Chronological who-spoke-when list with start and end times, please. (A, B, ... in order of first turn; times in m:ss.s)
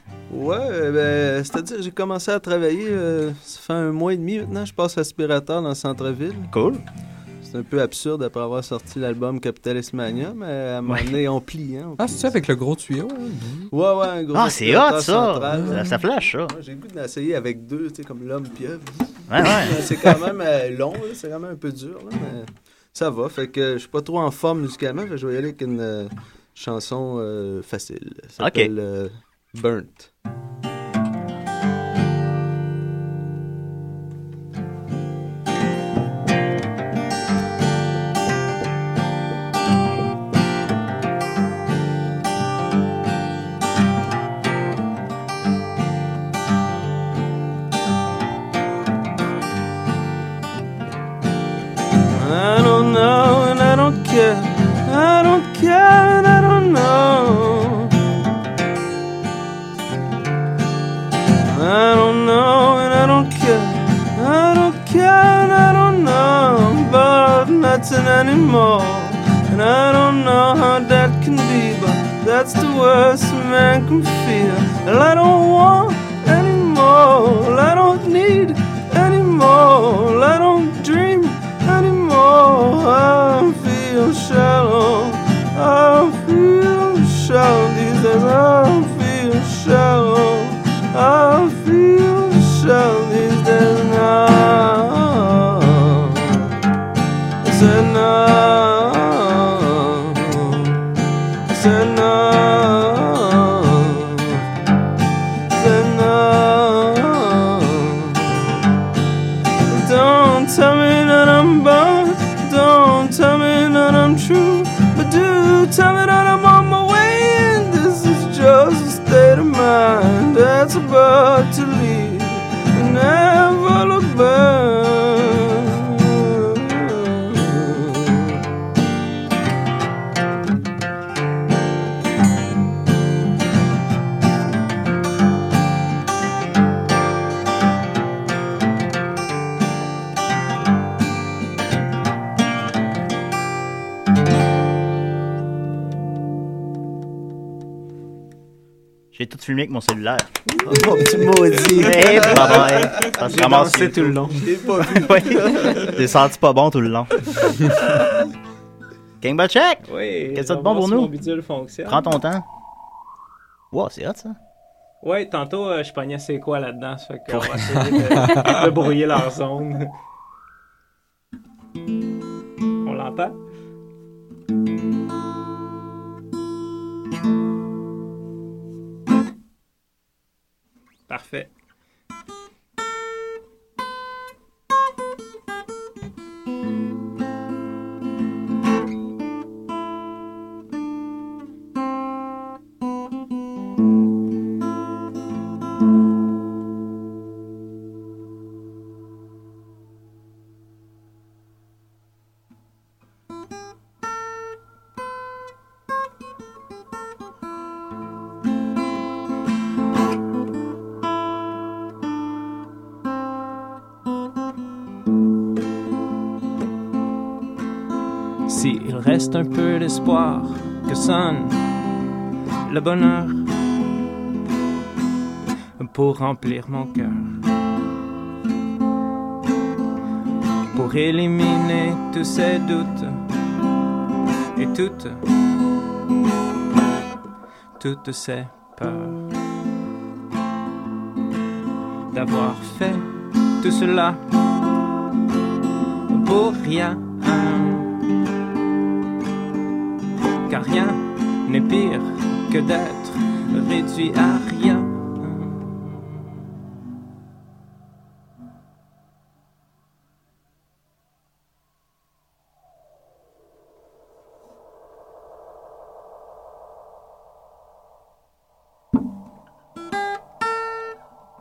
0:00.3-0:06.5 A
0:06.5-0:06.8 B
0:07.4-0:12.4 A
0:10.8-0:11.1 B
0:12.0-0:13.7 C
0:13.7-0:30.1 A
0:14.3-0:16.5 B
0:15.5-0:15.8 C
0:19.3-0:19.9 B
0:28.4-0:28.7 B
0:52.1-0:57.9 A
1:01.4-1:36.6 A
1:37.4-1:40.8 A
1:41.5-1:44.4 A
1:45.5-1:48.6 A
1:49.7-2:08.4 A
2:29.1-2:30.3 B
2:30.6-2:30.9 D
2:30.6-2:33.0 A
2:31.8-2:34.2 B
2:31.8-2:34.7 D
2:34.4-2:36.0 A
2:34.8-2:37.3 B
2:39.2-2:41.1 B
2:39.8-2:42.1 D
2:41.9-2:42.4 B
2:43.7-2:44.4 B
2:45.0-2:50.0 D
2:47.4-2:48.7 C
2:52.8-2:53.4 D
3:01.1-3:01.5 D
3:38.5-3:41.7 D
3:42.7-3:43.5 D
3:45.8-3:47.4 D
3:50.7-3:53.2 D
3:54.6-3:55.2 D
3:57.8-3:59.2 D
4:02.1-4:04.2 D
4:06.1-4:08.0 D
4:10.5-4:15.9 D